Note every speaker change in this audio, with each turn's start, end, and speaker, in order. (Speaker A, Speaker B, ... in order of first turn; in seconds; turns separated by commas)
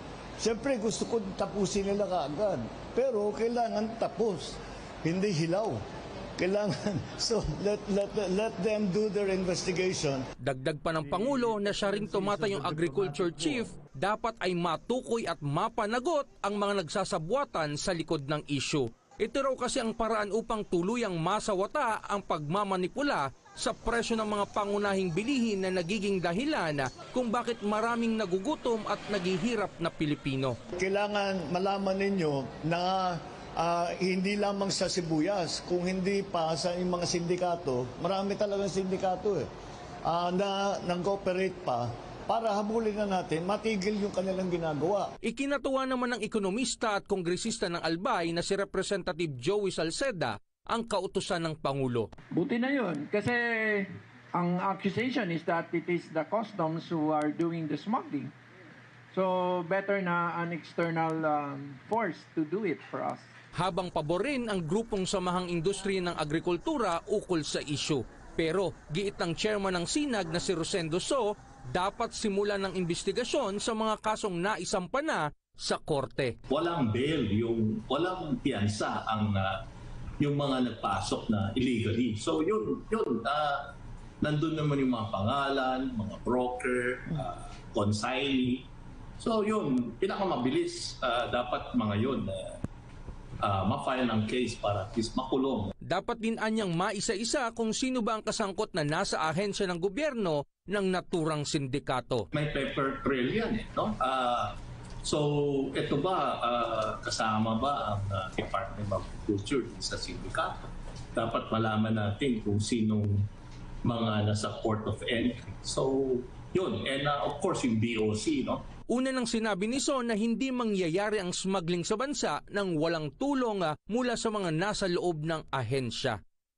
Speaker A: 0.4-5.8, Speaker A: 6.4-10.2, Speaker B: 10.4-30.6, Speaker A: 30.8-39.5, Speaker A: 40.1-45.1, Speaker B: 45.2-52.1, Speaker C: 52.3-58.3, Speaker C: 59.1-63.3, Speaker B: 63.6-76.4, Speaker D: 76.5-79.6, Speaker D: 80.2-83.6, Speaker D: 84.2-88.7, Speaker D: 89.2-92.6, Speaker D: 93.4-95.7, Speaker B: 95.8-102.3, Speaker D: 102.3-110.6, Speaker D: 111.2-113.2, Speaker D: 113.8-118.6, Speaker B: 118.9-126.2